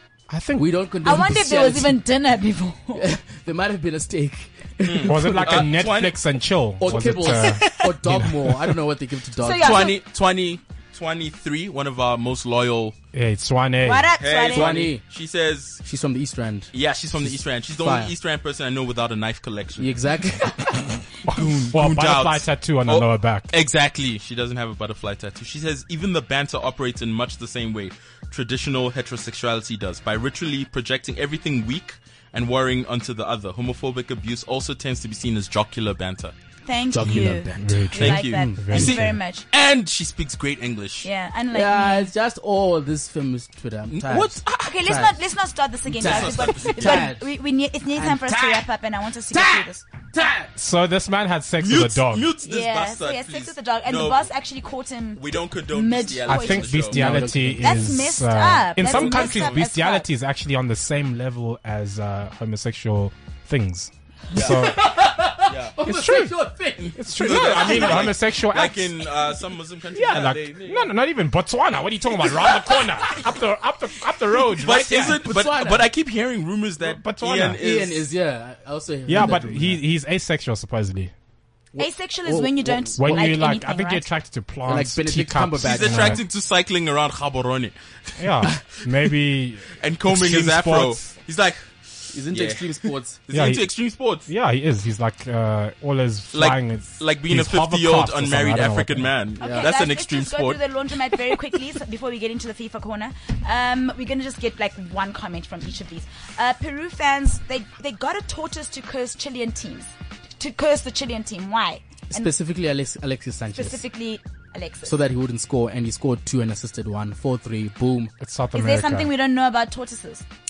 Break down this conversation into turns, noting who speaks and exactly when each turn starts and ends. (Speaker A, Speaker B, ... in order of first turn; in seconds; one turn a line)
Speaker A: 0.3-0.7
Speaker B: 0.6-2.0
Speaker C: 1.0-3.0
Speaker B: 3.0-5.7
Speaker D: 4.8-6.2
Speaker A: 5.0-8.8
Speaker B: 6.8-9.9
Speaker C: 7.2-7.9
Speaker C: 9.4-10.0
Speaker D: 9.6-12.9
Speaker A: 13.1-14.1
Speaker C: 13.8-14.7
Speaker D: 14.2-15.8
Speaker B: 14.5-15.0
Speaker B: 15.8-16.7
Speaker D: 16.7-20.0
Speaker B: 17.2-18.1
Speaker B: 19.8-20.8
Speaker A: 21.2-23.5
Speaker D: 21.4-36.3
Speaker C: 36.6-39.5
Speaker B: 36.9-38.7
Speaker A: 37.1-39.1
Speaker D: 38.0-41.1
Speaker C: 41.0-42.1
Speaker B: 41.5-45.2
Speaker D: 43.9-44.8
Speaker C: 44.6-49.8
Speaker B: 45.9-47.3
Speaker D: 46.0-47.1
Speaker B: 47.9-48.7
Speaker B: 49.3-50.5
Speaker A: 50.5-52.3
Speaker D: 51.6-54.3
Speaker C: 52.4-56.7
Speaker D: 55.1-57.0
Speaker A: 56.2-64.8
Speaker B: 56.9-57.8
Speaker C: 57.6-60.0
Speaker D: 58.8-59.6
Speaker D: 64.3-64.9
Speaker B: 64.3-68.1
Speaker D: 65.4-65.7
Speaker A: 65.8-66.4
Speaker D: 66.8-70.9
Speaker A: 66.9-69.0
Speaker A: 69.9-75.3
Speaker D: 74.6-78.1
Speaker B: 75.2-75.9
Speaker A: 76.8-77.6
Speaker B: 77.6-79.8
Speaker A: 79.1-81.1
Speaker B: 81.7-83.4
Speaker C: 81.8-84.1
Speaker A: 83.0-86.2
Speaker B: 84.7-86.2
Speaker D: 85.6-88.8
Speaker A: 88.2-91.1
Speaker D: 89.8-94.3
Speaker B: 92.1-93.2
Speaker A: 93.3-93.7
Speaker A: 94.2-99.1
Speaker D: 96.3-100.6
Speaker C: 99.4-112.3
Speaker B: 99.4-99.7
Speaker B: 112.1-113.8
Speaker C: 113.5-115.0
Speaker B: 114.8-118.1
Speaker A: 118.2-119.1
Speaker C: 118.5-120.2